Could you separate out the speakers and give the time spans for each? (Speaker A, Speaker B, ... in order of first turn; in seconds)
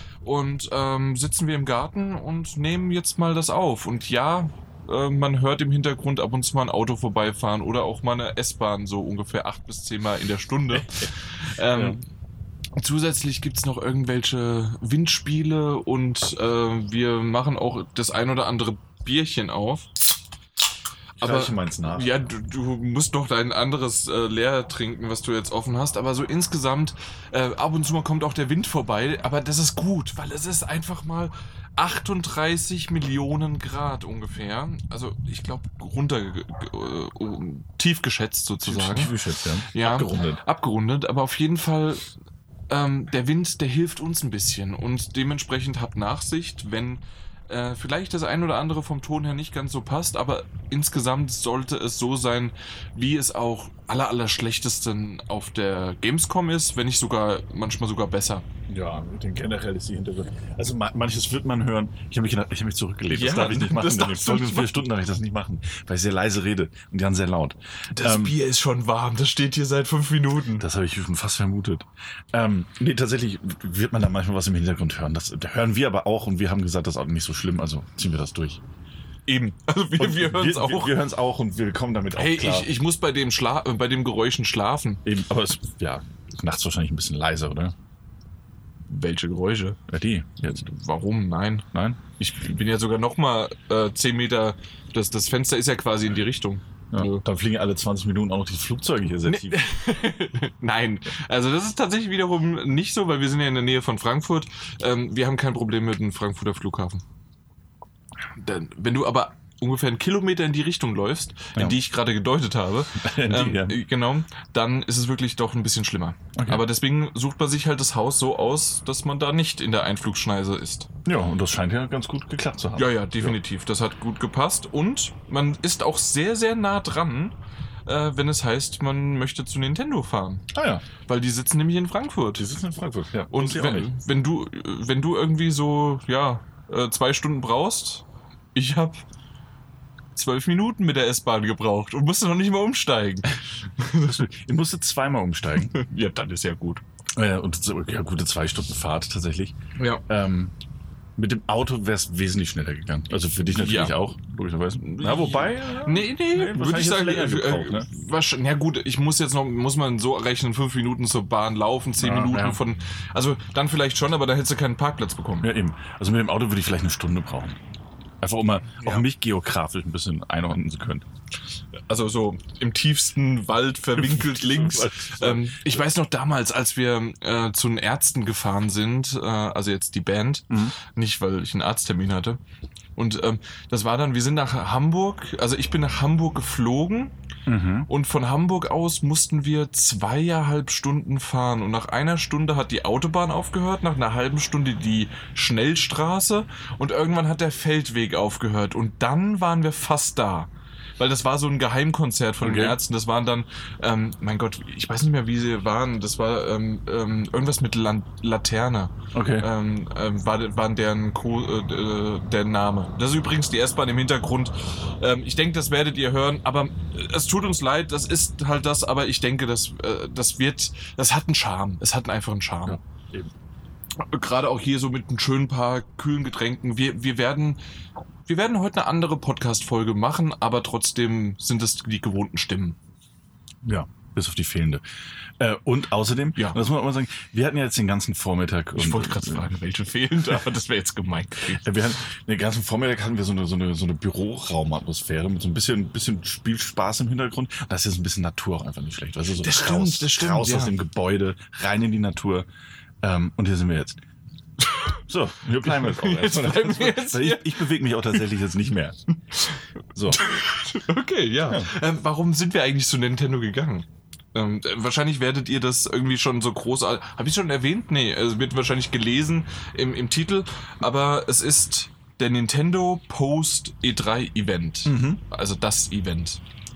Speaker A: 0.2-12.0, 12.8-19.9, 21.2-42.1, 42.7-58.5, 63.1-64.8, 67.9-70.6, 79.3-81.0, 82.2-85.0, 88.9-89.8, 90.5-91.7, 92.2-97.2, 99.2-107.0, 108.4-120.9, 122.8-127.3, 127.8-130.4, 131.1-132.4, 133.3-138.0, 138.5-139.0, 140.1-144.2, 145.6-146.8, 149.8-150.0, 153.5-154.0, 154.8-165.5, 168.8-169.0, 171.9-182.4, 182.9-187.1, 187.9-222.8, 224.0-227.6, 228.2-232.8, 238.8-241.8, 249.4-250.8, 254.6-255.0, 255.6-258.2, 259.3-276.4
Speaker B: 10.7-12.0, 21.2-22.1, 38.6-40.4, 58.7-68.3, 70.6-78.6, 80.0-82.7, 85.0-87.7, 89.9-90.6, 91.7-92.0, 96.9-99.7, 113.0-113.8, 116.3-116.6, 121.0-123.4, 130.5-130.8, 132.4-133.9, 144.0-145.8, 147.1-149.5, 150.1-150.5, 151.2-157.9, 162.0-162.6, 165.4-167.6, 168.2-171.0, 173.9-175.8, 180.5-180.7, 187.5-187.9, 202.4-202.8, 209.1-209.5, 222.7-223.3, 233.6-234.8, 235.4-239.5, 241.5-252.5, 253.0-254.0, 255.1-259.0, 259.9-260.2, 261.4-261.7, 274.8-275.2